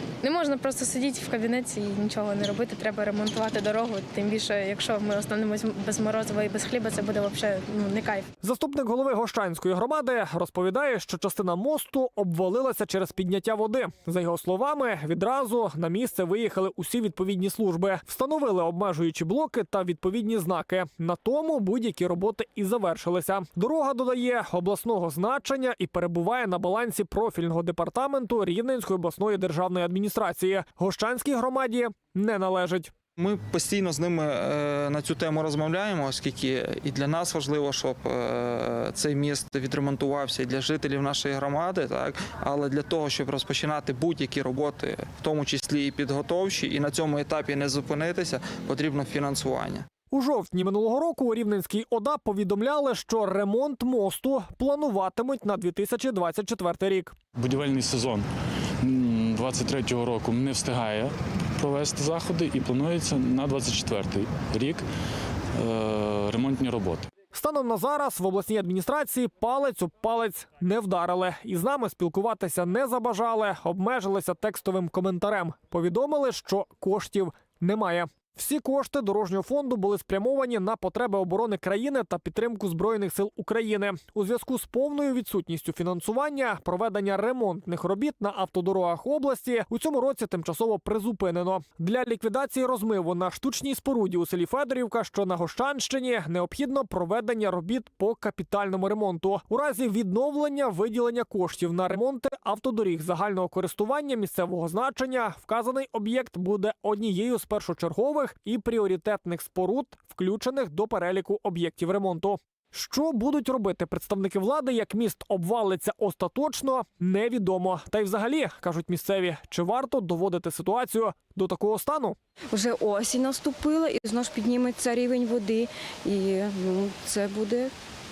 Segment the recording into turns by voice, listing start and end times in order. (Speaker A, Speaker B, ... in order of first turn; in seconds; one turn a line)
Speaker A: 0.2-8.3
Speaker B: 8.4-32.9
Speaker C: 33.2-49.9
Speaker B: 50.1-57.2
Speaker D: 57.4-58.2
Speaker D: 58.8-64.8
Speaker D: 65.6-67.1
Speaker B: 67.3-122.2
Speaker E: 122.5-127.7